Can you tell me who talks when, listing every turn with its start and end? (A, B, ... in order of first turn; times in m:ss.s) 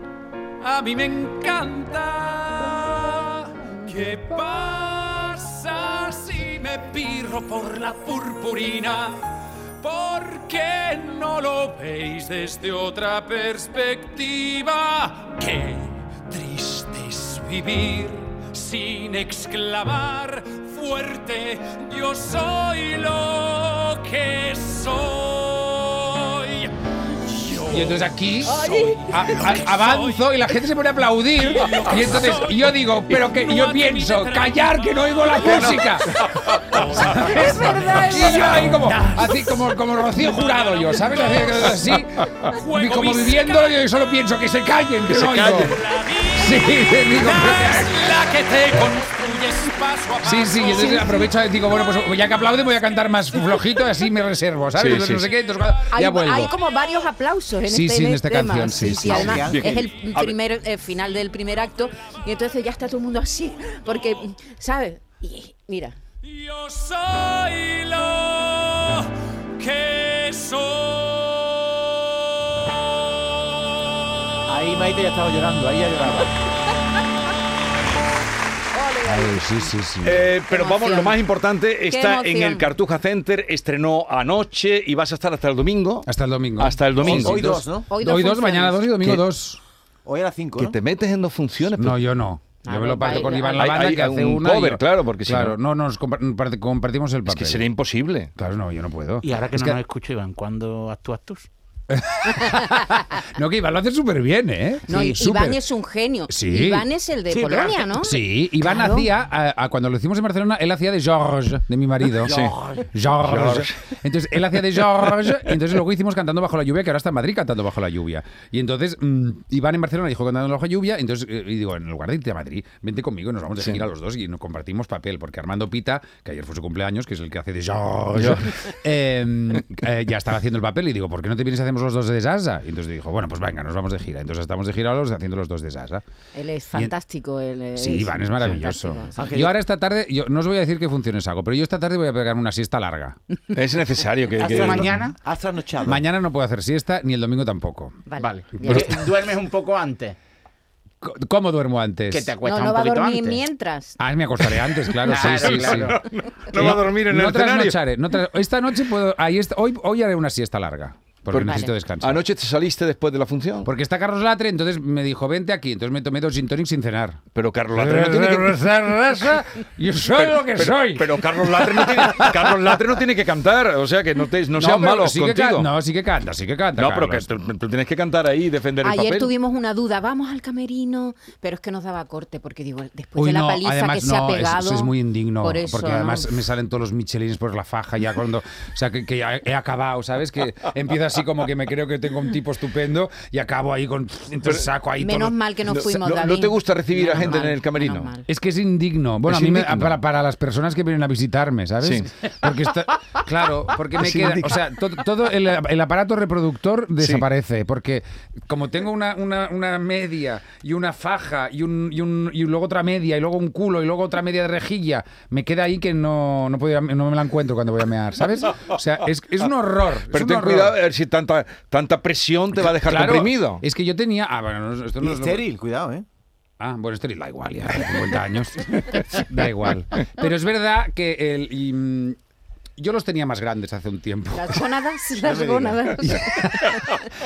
0:00.6-0:30.2 A
0:27.5-0:48.2 B
0:28.5-0:29.5 C
0:31.4-0:35.9 A
0:35.4-0:36.5 D
0:36.7-0:38.8 C
0:36.8-0:39.0 A
0:40.2-0:41.7 A
0:42.5-0:43.8 A
0:45.1-0:45.8 D
0:45.8-0:51.3 A
0:50.2-0:56.6 B
0:50.6-0:51.2 C
0:54.8-0:55.3 D
0:55.9-1:06.0 C
0:57.6-0:59.5 B
0:58.9-0:59.8 E
0:59.4-1:00.4 D
1:06.2-1:12.3 A
1:14.5-1:16.4 E
1:18.7-1:19.6 C
1:19.0-1:20.2 B
1:20.0-1:26.1 D
1:20.4-1:21.2 C
1:21.9-1:22.7 C
1:26.1-1:29.6 B
1:26.6-1:27.6 D
1:27.0-1:27.9 E
1:27.9-1:28.9 C
1:30.1-1:30.8 E
1:30.6-1:32.0 D
1:31.7-1:37.6 B
1:32.6-1:33.8 C
1:33.3-1:35.6 D
1:37.3-1:38.3 D
1:38.4-1:39.8 B
1:39.2-1:41.5 F
1:41.9-1:45.6 B
1:44.9-1:49.1 C
1:46.3-1:46.9 B
1:47.3-1:47.8 F
1:47.9-2:16.0 B
1:52.2-1:52.6 D
1:53.2-1:53.8 D
2:08.2-2:08.7 D
2:16.4-2:19.3 C
2:17.8-2:23.2 B
2:19.2-2:19.6 E
2:23.5-2:24.9 D
2:24.4-2:25.2 F
2:24.4-2:26.0 E
2:25.8-2:28.1 B
2:28.1-2:28.9 C
2:28.2-2:30.2 F
2:28.6-2:29.0 B
2:31.0-2:32.3 B
2:32.1-2:33.4 F
2:32.4-2:34.0 C
2:34.0-2:36.0 B
2:35.0-2:36.1 F
2:35.3-2:37.8 D
2:36.5-2:42.2 B
2:41.3-2:43.7 D
2:41.4-2:41.7 C
2:43.6-2:47.2 B
2:47.3-2:48.6 D
2:47.7-2:52.7 B
2:50.1-2:55.7 D
2:54.6-2:57.3 B
2:56.8-2:59.3 D
2:58.8-3:06.4 C
3:03.2-3:15.4 B
3:15.0-3:18.3 C
3:15.7-3:18.1 D
3:18.3-3:40.8 B
3:19.3-3:20.0 D
3:21.8-3:22.1 D
3:24.0-3:24.6 D
3:27.0-3:27.3 D
3:40.1-3:43.6 D
3:42.7-3:45.4 B
3:45.0-3:46.0 E
3:46.6-3:52.2 B
3:52.8-3:54.7 B
3:54.3-3:57.1 C
3:55.2-3:55.8 E
3:56.1-3:56.7 B